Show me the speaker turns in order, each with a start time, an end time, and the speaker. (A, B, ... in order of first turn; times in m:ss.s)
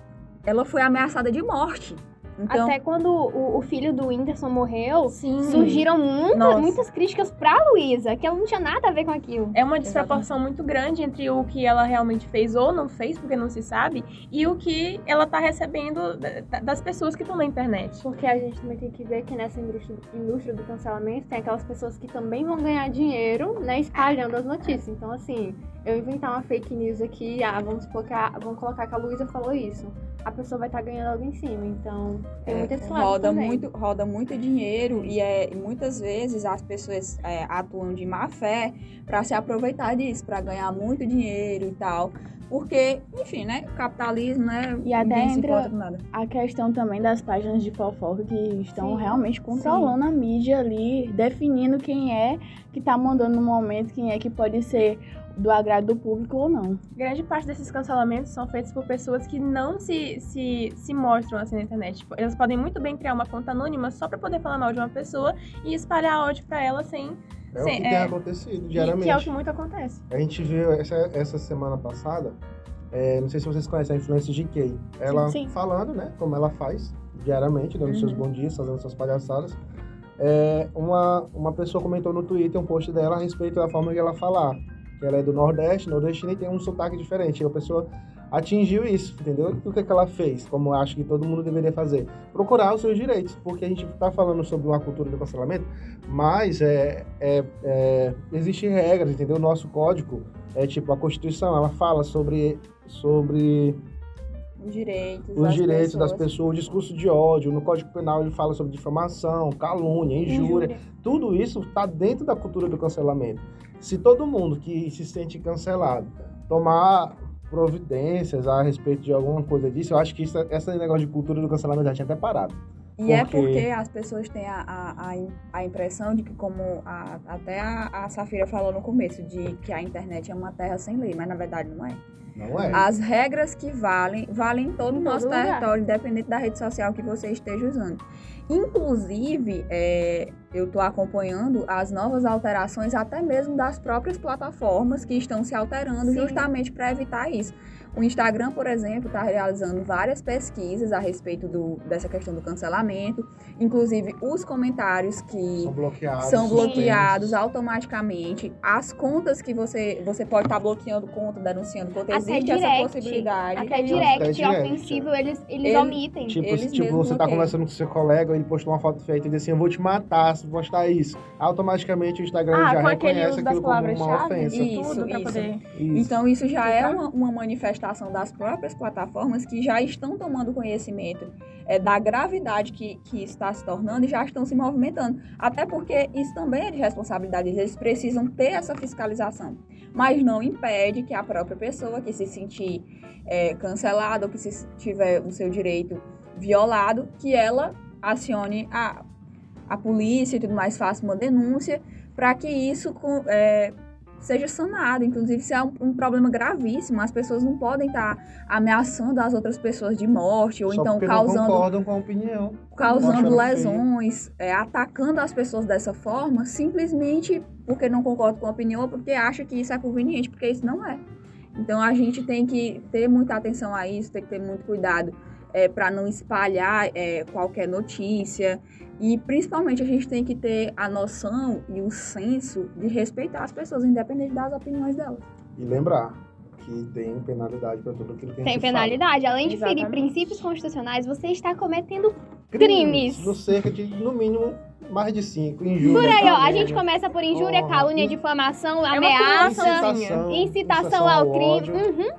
0:00.5-0:02.8 A
0:02.5-0:09.6 B
0:05.1-0:06.8 C
0:05.5-0:05.8 A
0:09.5-0:18.0 C
0:09.9-0:10.2 A
0:18.0-0:33.6 D
0:32.4-0:46.0 A
0:44.8-0:56.8 E
0:48.8-0:49.9 C
0:57.0-1:08.1 C
1:07.5-1:09.4 F
1:08.7-1:10.0 C
1:10.1-1:12.4 F
1:12.9-1:19.6 F
1:15.1-1:15.5 B
1:17.9-1:18.3 A
1:20.2-1:43.8 F
1:44.6-1:46.3 A
1:45.4-2:03.7 F
2:03.0-2:12.0 A
2:12.4-2:12.9 F
2:12.7-2:44.3 A
2:14.9-2:15.7 B
2:26.0-2:26.4 B
2:35.6-2:37.4 F
2:36.4-2:36.9 B
2:42.1-2:46.4 B
2:43.6-2:44.0 C
2:43.9-2:45.1 F
2:45.6-2:47.6 A
2:46.3-2:54.8 F
2:52.5-2:55.7 C
2:54.5-3:19.0 A
2:55.7-2:56.2 F
2:56.6-2:57.0 B
3:19.7-3:31.7 A
3:30.7-3:33.9 F
3:32.8-3:41.0 A
3:32.8-3:33.4 B
3:41.6-3:55.3 A
3:55.6-3:59.0 F
3:58.4-4:03.4 B
3:59.4-4:00.1 C
4:02.5-4:08.2 F
4:05.8-4:12.1 B
4:05.8-4:06.7 C
4:08.9-4:10.2 C
4:09.4-4:11.9 F